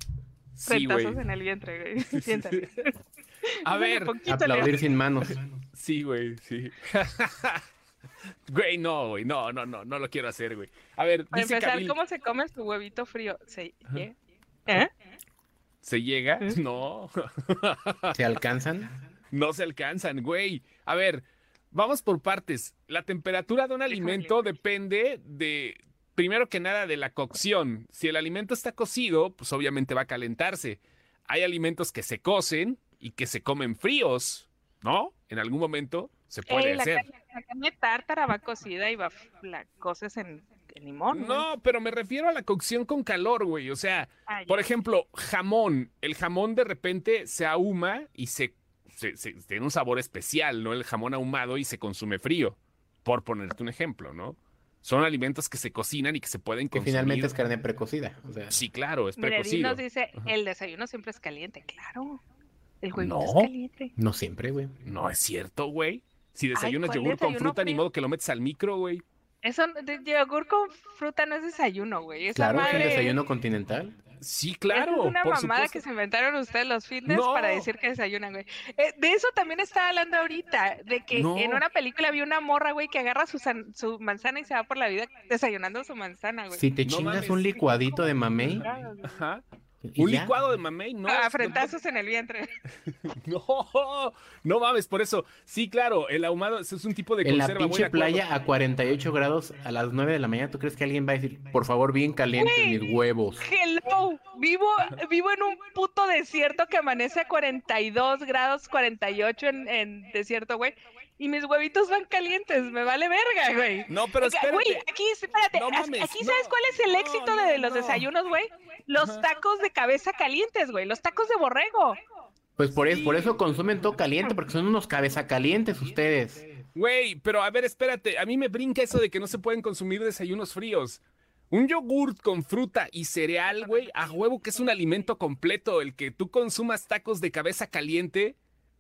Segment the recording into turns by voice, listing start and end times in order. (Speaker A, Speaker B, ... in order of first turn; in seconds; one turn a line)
Speaker A: 0.6-1.2
Speaker B: 0.7-2.9
Speaker A: 2.1-2.8
Speaker B: 3.5-4.8
Speaker A: 3.6-4.2
Speaker C: 4.2-5.4
Speaker A: 5.7-7.6
Speaker A: 8.5-11.9
Speaker B: 11.3-14.1
Speaker A: 15.8-18.2
Speaker C: 18.1-18.9
Speaker A: 19.3-37.1
Speaker B: 23.9-24.5
Speaker B: 36.5-41.5
Speaker A: 41.1-57.3
Speaker B: 44.3-44.6
Speaker C: 56.7-58.6
Speaker A: 58.5-59.8
Speaker B: 59.2-62.2
Speaker B: 62.8-63.9
Speaker A: 63.0-63.5
Speaker C: 64.0-64.7
Speaker A: 64.8-69.0
Speaker B: 66.5-67.8
Speaker B: 69.4-73.2
Speaker C: 72.3-74.0
Speaker A: 72.5-73.1
Speaker A: 74.2-75.8
Speaker B: 74.7-86.6
Speaker A: 77.1-77.7
Speaker A: 81.1-81.6
Speaker C: 86.5-88.6
Speaker A: 86.8-87.6
Speaker B: 88.5-89.1
Speaker A: 88.5-89.4
Speaker C: 89.8-90.3
Speaker A: 90.0-91.7
Speaker B: 91.1-92.5
Speaker A: 92.9-98.2
Speaker C: 97.2-103.5
Speaker B: 102.3-102.8
Speaker B: 103.4-122.0
Speaker A: 113.9-114.8
Speaker A: 115.5-118.1
Speaker A: 119.0-119.2
Speaker C: 122.6-126.4
Speaker A: 122.9-123.4
Speaker A: 126.7-138.4